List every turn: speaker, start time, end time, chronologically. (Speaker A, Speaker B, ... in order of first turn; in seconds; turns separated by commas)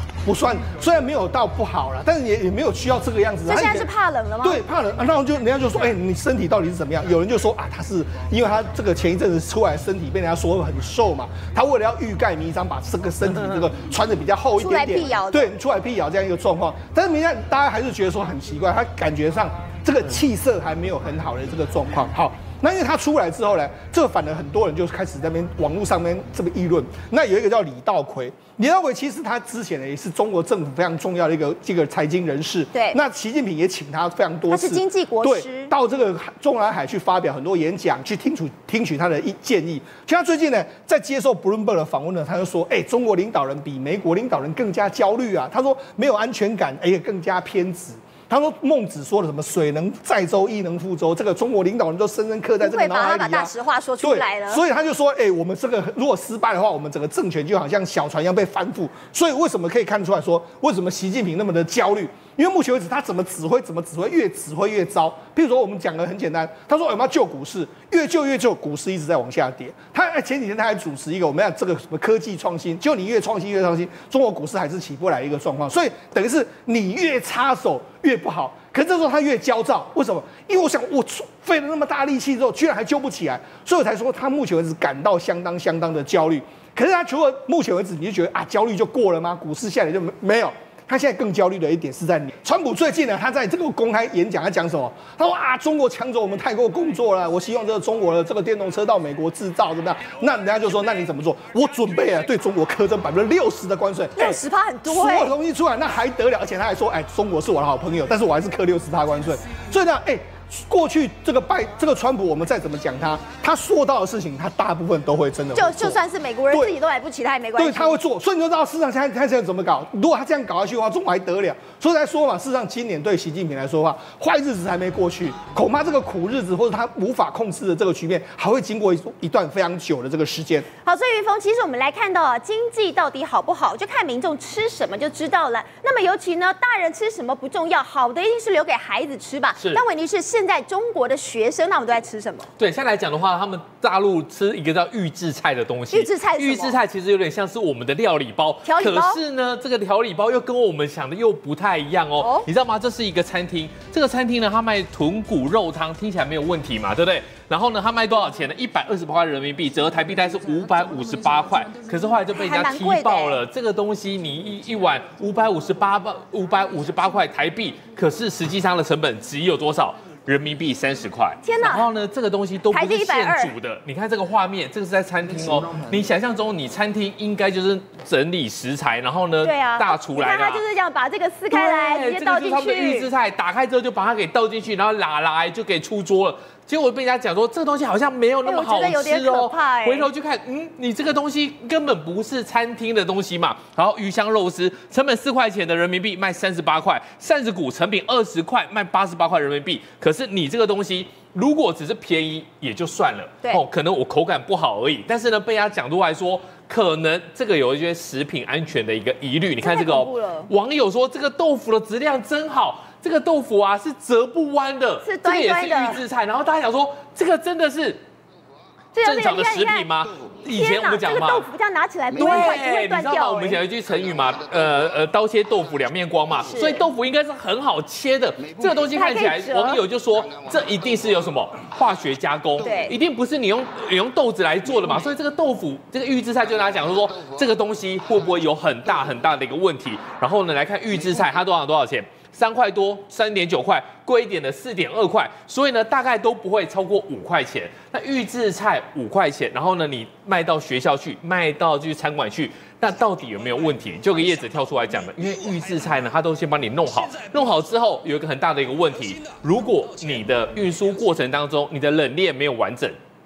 Speaker A: 0.2-3.9, Speaker B: 3.4-4.6, Speaker A: 4.4-116.0, Speaker B: 14.6-15.5, Speaker B: 34.5-35.7, Speaker B: 52.6-54.6, Speaker B: 104.2-105.3, Speaker B: 115.5-118.0, Speaker A: 116.5-116.8, Speaker A: 117.5-130.7, Speaker B: 130.8-142.5, Speaker C: 139.6-139.8, Speaker C: 142.6-180.6, Speaker B: 145.9-146.8, Speaker B: 148.6-149.2, Speaker B: 152.2-152.5, Speaker B: 162.3-163.4, Speaker B: 171.4-171.9, Speaker B: 172.7-173.5, Speaker B: 179.4-183.1, Speaker C: 181.5-218.0, Speaker B: 188.4-190.1, Speaker B: 209.6-210.5, Speaker B: 215.0-216.0, Speaker B: 218.9-219.9, Speaker C: 219.0-221.5, Speaker B: 220.5-223.6, Speaker C: 222.1-263.0, Speaker B: 226.5-226.8, Speaker B: 228.9-229.8, Speaker B: 232.6-232.9